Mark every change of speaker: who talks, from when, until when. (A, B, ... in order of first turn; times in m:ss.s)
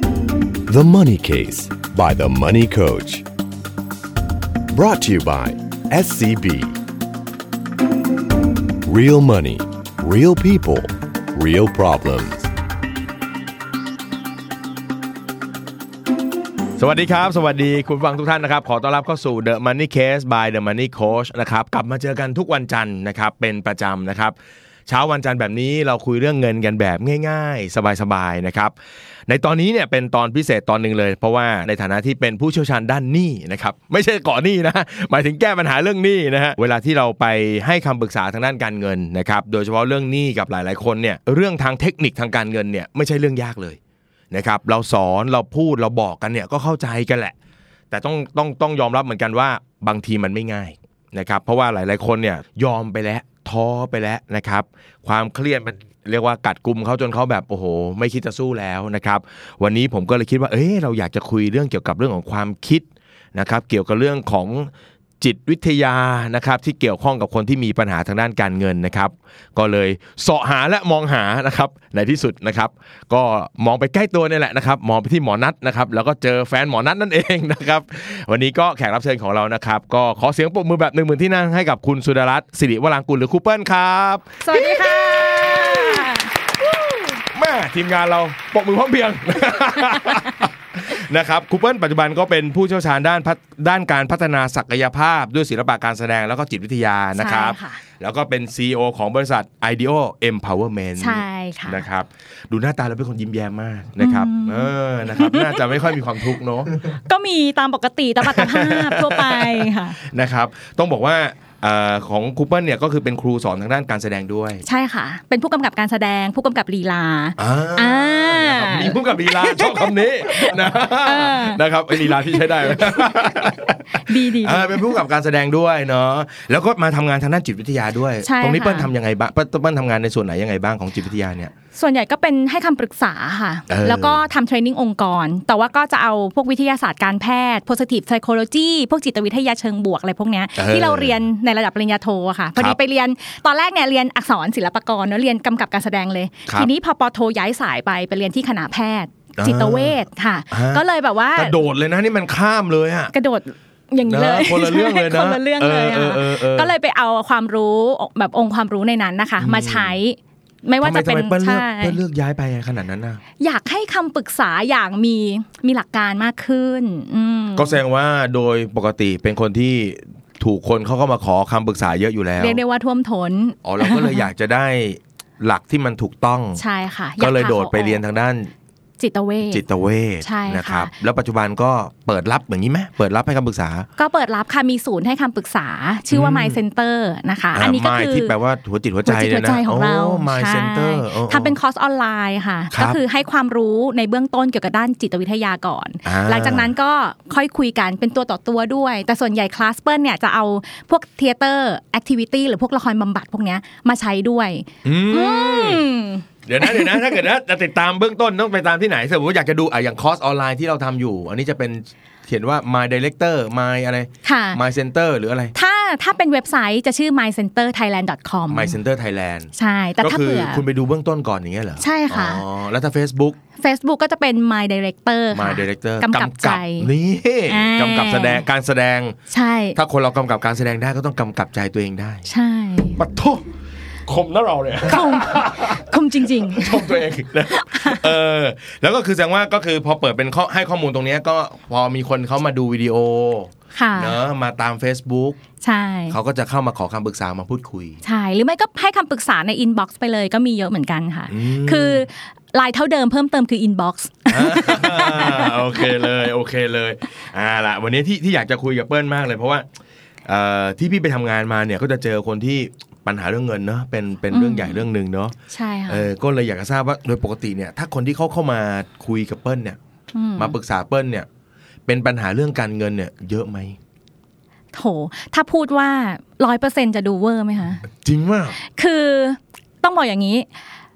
0:00.7-0:03.2 A
0:04.7-0:06.8 A
0:08.8-0:12.5 A
0:16.8-0:24.3 B
0:24.9-0:28.7 B
0:29.3-0:43.8 B
0:44.3-0:47.3 B
0:47.9-1:26.1 B
1:24.4-1:26.3 C
1:27.2-1:46.7 B
1:37.2-1:37.8 C
1:41.0-1:41.8 C
1:44.0-1:46.0 C
1:46.9-1:50.0 C
1:48.2-1:54.6 B
1:54.6-2:05.0 C
1:57.4-2:11.5 B
2:08.2-2:08.9 C
2:11.7-2:31.6 C
2:13.7-2:14.2 B
2:20.5-2:21.1 B
2:29.4-2:30.0 B
2:30.5-2:30.8 B
2:31.4-2:33.1 B
2:33.1-2:42.0 C
2:34.0-2:36.7 B
2:39.4-2:40.0 B
2:40.8-2:43.2 B
2:43.4-2:47.8 C
2:47.6-2:52.6 B
2:52.4-2:54.3 C
2:53.6-2:56.6 B
2:56.6-2:58.0 C
2:57.2-2:58.5 B
2:59.0-2:59.6 C
2:59.5-3:03.9 B
3:00.2-3:00.9 C
3:04.0-3:08.3 C
3:06.1-3:06.6 B
3:07.5-3:11.5 B
3:09.0-3:27.2 C
3:12.7-3:13.0 B
3:16.0-3:16.7 B
3:24.8-3:25.8 B
3:26.4-3:35.5 B
3:34.2-3:34.6 C
3:35.5-3:38.7 C
3:38.5-3:43.4 B
3:39.5-3:40.6 C
3:41.8-3:42.4 C
3:43.6-3:46.9 C
3:45.3-3:49.2 B
3:47.5-3:48.4 C
3:49.3-3:49.8 C
3:49.7-3:52.2 B
3:52.3-3:53.0 C
3:53.0-3:53.4 B
3:54.0-3:55.9 B
3:54.8-3:58.1 C
3:56.5-4:05.4 B
4:03.7-4:04.2 C
4:05.6-4:06.2 C
4:06.1-4:08.0 B
4:08.0-4:16.1 C
4:11.3-4:12.0 B
4:14.3-4:19.6 B
4:20.2-4:25.3 B
4:24.3-4:24.8 C
4:25.5-4:26.1 C
4:25.9-4:29.8 B
4:30.1-4:30.6 C
4:30.4-4:31.3 B
4:31.8-4:33.8 B
4:34.7-4:37.8 C
4:37.8-4:38.6 B
4:38.6-4:40.4 C